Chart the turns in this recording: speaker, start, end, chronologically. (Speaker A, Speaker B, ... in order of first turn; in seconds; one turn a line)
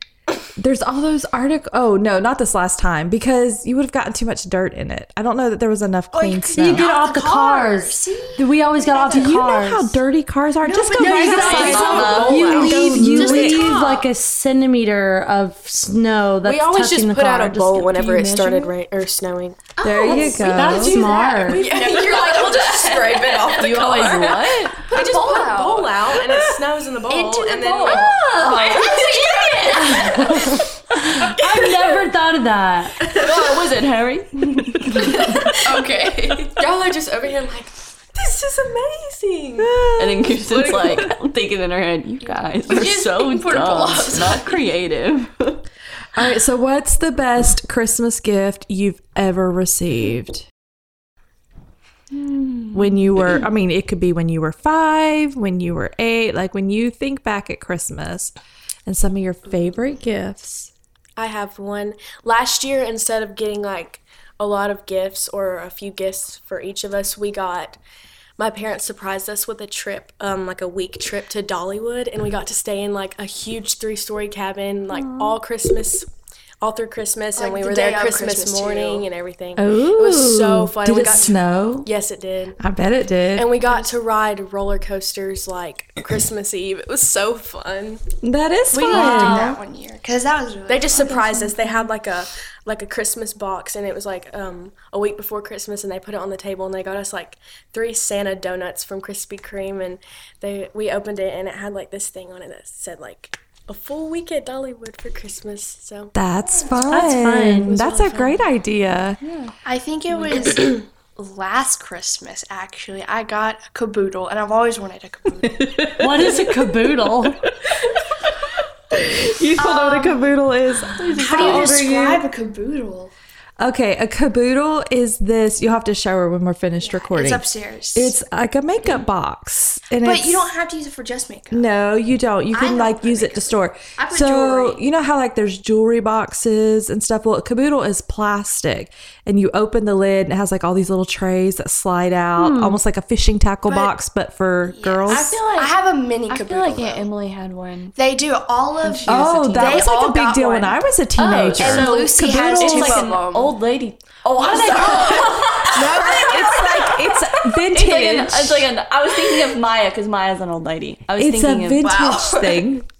Speaker A: 0.6-6.9
Speaker B: 6.1-9.6
Speaker C: 6.6-10.0
Speaker A: 9.1-13.7
Speaker B: 10.6-12.5
Speaker D: 10.9-14.1
Speaker C: 11.2-18.3
Speaker E: 11.2-12.9
Speaker D: 16.4-29.7
Speaker E: 18.0-18.7
Speaker B: 19.8-24.2
Speaker A: 19.8-21.1
Speaker C: 20.1-21.7
Speaker E: 21.6-24.9
Speaker B: 24.9-26.1
Speaker B: 27.1-30.6
Speaker E: 27.8-30.6
Speaker C: 29.9-33.0
Speaker D: 31.4-32.0
Speaker D: 33.0-33.5
Speaker E: 33.1-35.5
Speaker B: 35.0-36.6
Speaker D: 35.0-39.7
Speaker A: 39.6-41.1
Speaker E: 40.0-45.6
Speaker B: 42.7-44.6
Speaker A: 46.1-50.5
Speaker E: 52.1-52.9
Speaker A: 52.7-58.3
Speaker A: 58.9-60.7
Speaker D: 61.2-67.8
Speaker D: 68.4-76.1
Speaker E: 74.9-75.4
Speaker D: 76.6-82.6
Speaker B: 77.3-79.1
Speaker A: 79.6-81.9
Speaker A: 82.6-83.5
Speaker D: 83.3-88.0
Speaker A: 88.2-89.5
Speaker B: 88.7-91.6
Speaker C: 88.8-89.6
Speaker D: 90.7-108.4
Speaker A: 106.1-109.2
Speaker C: 106.9-107.7
Speaker E: 108.0-108.3
Speaker E: 109.2-109.5
Speaker B: 109.6-115.9
Speaker E: 110.1-110.4
Speaker A: 115.6-118.3
Speaker C: 116.0-117.4
Speaker A: 118.9-122.2
Speaker B: 119.5-120.4
Speaker E: 120.9-121.7
Speaker B: 121.2-123.1
Speaker A: 123.6-130.5
Speaker B: 126.8-128.2
Speaker B: 130.0-131.7
Speaker A: 131.5-145.4
Speaker B: 132.5-134.8
Speaker C: 142.4-142.8
Speaker B: 143.7-143.9
Speaker B: 144.6-147.1
Speaker E: 145.1-145.7
Speaker E: 146.3-147.9
Speaker B: 147.9-150.8
Speaker E: 148.8-149.8
Speaker A: 149.0-153.1
Speaker E: 151.2-156.9
Speaker B: 151.5-153.5
Speaker A: 154.4-158.7
Speaker B: 154.4-157.0
Speaker E: 157.7-162.0
Speaker A: 161.2-162.8
Speaker B: 161.8-162.7